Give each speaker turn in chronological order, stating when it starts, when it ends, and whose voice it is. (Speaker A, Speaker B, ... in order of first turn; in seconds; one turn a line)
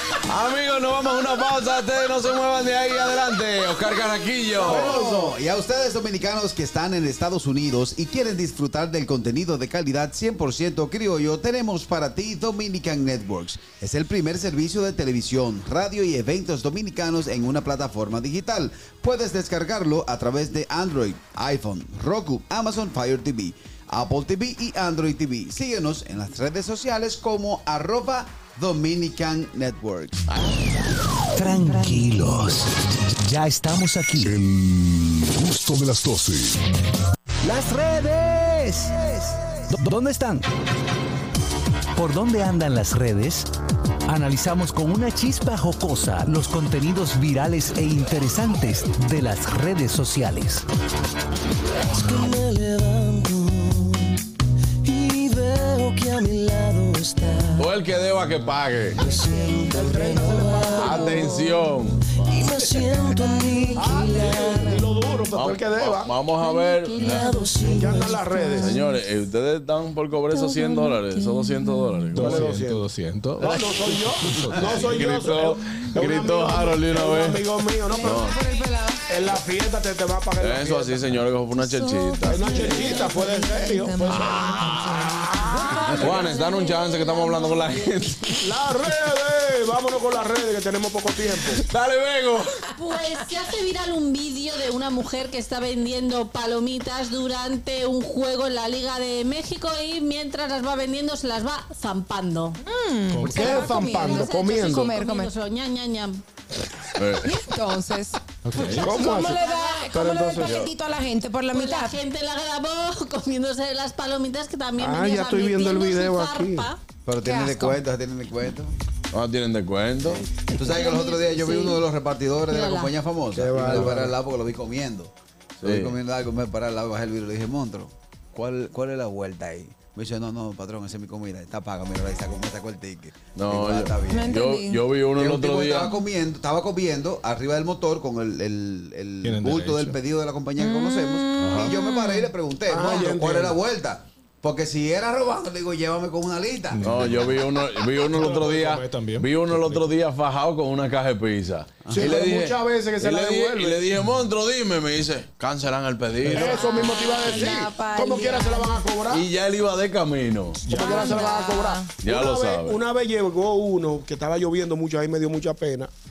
Speaker A: 0.2-5.0
Speaker B: 4.6-5.3
Speaker C: 4.6-30.2
Speaker D: 31.3-34.3
Speaker E: 34.2-36.6
Speaker D: 37.4-39.1
Speaker D: 39.7-40.5
Speaker D: 42.0-43.5
Speaker D: 44.1-50.6
Speaker F: 51.9-54.2
Speaker F: 54.8-57.7
Speaker A: 57.6-59.0
Speaker F: 59.0-61.3
Speaker B: 59.7-61.6
Speaker A: 60.8-62.0
Speaker F: 62.3-64.9
Speaker B: 63.7-66.1
Speaker A: 65.3-67.3
Speaker G: 66.4-68.2
Speaker F: 67.0-68.3
Speaker B: 67.7-68.8
Speaker H: 68.3-68.7
Speaker A: 68.5-72.4
Speaker H: 70.3-72.2
Speaker I: 72.2-75.1
Speaker B: 72.2-72.8
Speaker B: 73.4-78.3
Speaker A: 74.6-77.5
Speaker H: 77.9-79.0
Speaker A: 78.0-78.3
Speaker B: 79.1-81.2
Speaker A: 80.4-83.0
Speaker H: 81.6-87.7
Speaker B: 82.3-86.2
Speaker A: 84.1-85.0
Speaker G: 85.8-87.9
Speaker A: 86.0-88.4
Speaker B: 88.4-91.6
Speaker A: 91.7-92.5
Speaker G: 92.8-102.6
Speaker H: 102.6-105.3
Speaker I: 103.1-103.6
Speaker B: 103.3-104.9
Speaker G: 103.9-106.2
Speaker A: 107.0-107.3
Speaker H: 107.2-108.2
Speaker I: 108.5-109.0
Speaker G: 108.6-110.1
Speaker H: 108.8-112.0
Speaker B: 108.9-110.7
Speaker G: 111.5-116.8
Speaker B: 114.8-116.7
Speaker C: 117.0-118.7
Speaker H: 117.2-117.8
Speaker A: 119.1-120.2
Speaker C: 120.0-125.1
Speaker G: 120.5-121.8
Speaker G: 122.5-123.0
Speaker B: 123.3-124.2
Speaker A: 125.6-126.0
Speaker C: 125.6-134.4
Speaker A: 133.4-135.9
Speaker H: 134.1-134.8
Speaker C: 135.2-146.9
Speaker I: 139.2-140.0
Speaker H: 140.6-142.3
Speaker A: 141.4-141.7
Speaker B: 142.7-143.6
Speaker I: 146.7-147.4
Speaker A: 146.8-156.6
Speaker I: 148.0-149.9
Speaker B: 151.9-153.9
Speaker I: 156.2-156.6
Speaker B: 156.3-159.3
Speaker H: 156.6-158.8
Speaker G: 156.7-158.4
Speaker A: 159.1-160.8
Speaker I: 160.7-161.0
Speaker H: 160.7-161.9
Speaker B: 160.7-165.9
Speaker A: 161.9-162.8